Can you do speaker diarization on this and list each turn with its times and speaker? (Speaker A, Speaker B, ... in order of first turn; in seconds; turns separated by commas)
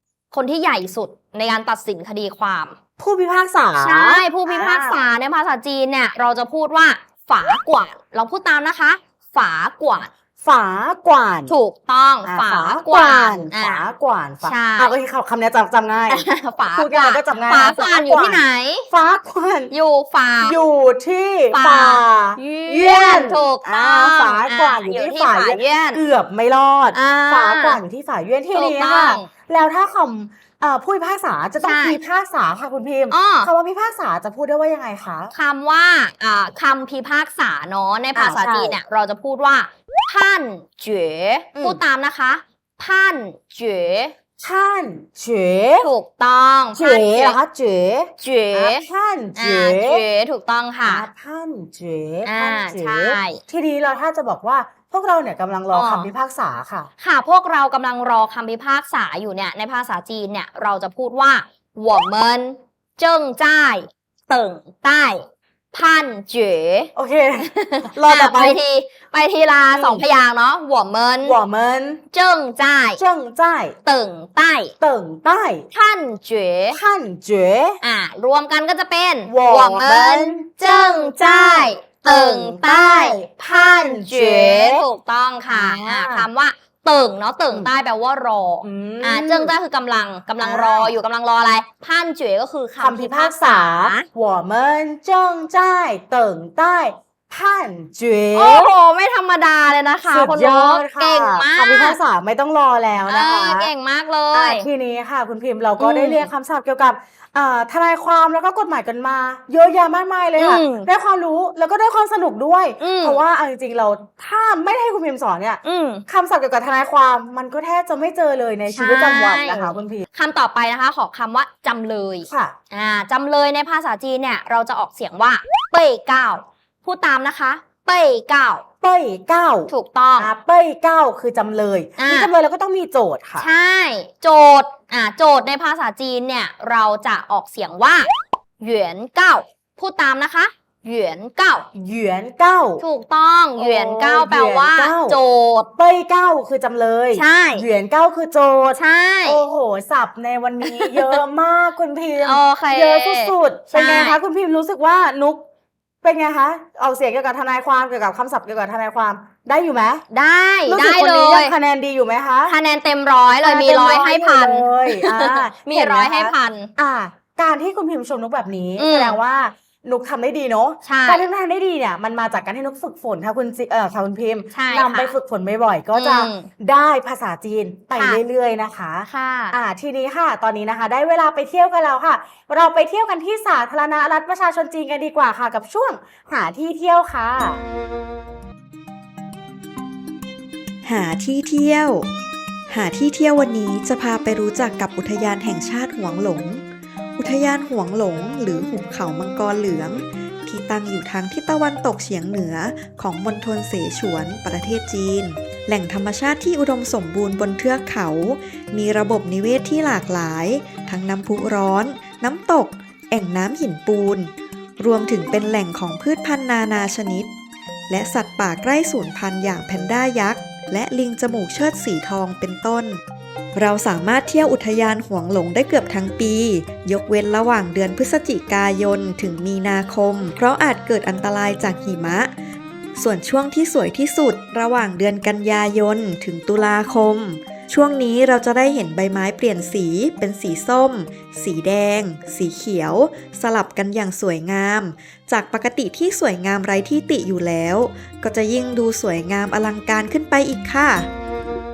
Speaker A: 0.3-2.8, Speaker B: 3.0-5.0, Speaker A: 3.8-10.1, Speaker B: 10.4-11.5, Speaker A: 11.5-13.8, Speaker B: 12.2-19.7, Speaker A: 14.4-14.9, Speaker A: 16.1-18.9, Speaker A: 19.7-20.6, Speaker B: 20.4-35.3, Speaker A: 21.5-26.0, Speaker A: 26.9-27.8, Speaker A: 28.5-29.3, Speaker A: 31.6-32.0, Speaker A: 33.1-33.5, Speaker A: 35.3-44.1, Speaker B: 38.1-38.8, Speaker B: 41.5-41.8, Speaker B: 44.4-45.9, Speaker A: 45.8-47.4, Speaker B: 46.7-50.0, Speaker A: 48.2-51.0, Speaker B: 50.8-56.9, Speaker A: 52.2-53.4, Speaker A: 55.7-56.1, Speaker A: 57.0-71.4, Speaker B: 66.9-68.6, Speaker B: 69.7-70.0, Speaker B: 71.2-72.0, Speaker A: 72.1-73.0, Speaker B: 73.0-73.7, Speaker A: 73.8-74.7, Speaker B: 74.8-75.7, Speaker A: 75.7-76.8, Speaker B: 76.7-77.8, Speaker A: 77.8-94.1, Speaker B: 79.2-84.8, Speaker B: 85.5-86.3, Speaker B: 88.6-89.5, Speaker B: 90.4-91.0, Speaker B: 92.8-98.7, Speaker A: 98.3-102.0, Speaker B: 100.1-103.7, Speaker A: 103.1-104.7, Speaker B: 104.3-120.0, Speaker A: 105.8-106.3, Speaker A: 110.4-110.9, Speaker A: 112.8-113.2, Speaker A: 115.6-116.0, Speaker A: 118.7-128.6, Speaker B: 122.3-122.5, Speaker B: 128.8-133.5, Speaker A: 129.7-130.3, Speaker A: 132.0-132.3, Speaker A: 133.4-141.7, Speaker B: 141.7-142.8, Speaker A: 142.8-145.7, Speaker B: 143.6-145.2, Speaker B: 145.8-155.4, Speaker A: 147.1-147.6, Speaker A: 148.7-149.4, Speaker A: 150.6-151.2, Speaker A: 152.2-154.2, Speaker B: 156.0-160.0, Speaker A: 160.1-161.6, Speaker B: 160.7-162.5, Speaker A: 162.4-166.7, Speaker B: 163.3-187.6, Speaker A: 168.8-169.2, Speaker A: 170.8-171.2, Speaker A: 174.5-175.1, Speaker A: 175.9-176.5, Speaker A: 179.1-179.6, Speaker C: 190.8-192.1, Speaker C: 192.7-196.6, Speaker C: 197.2-217.3, Speaker C: 217.9-223.0, Speaker C: 223.5-232.3, Speaker C: 232.9-251.1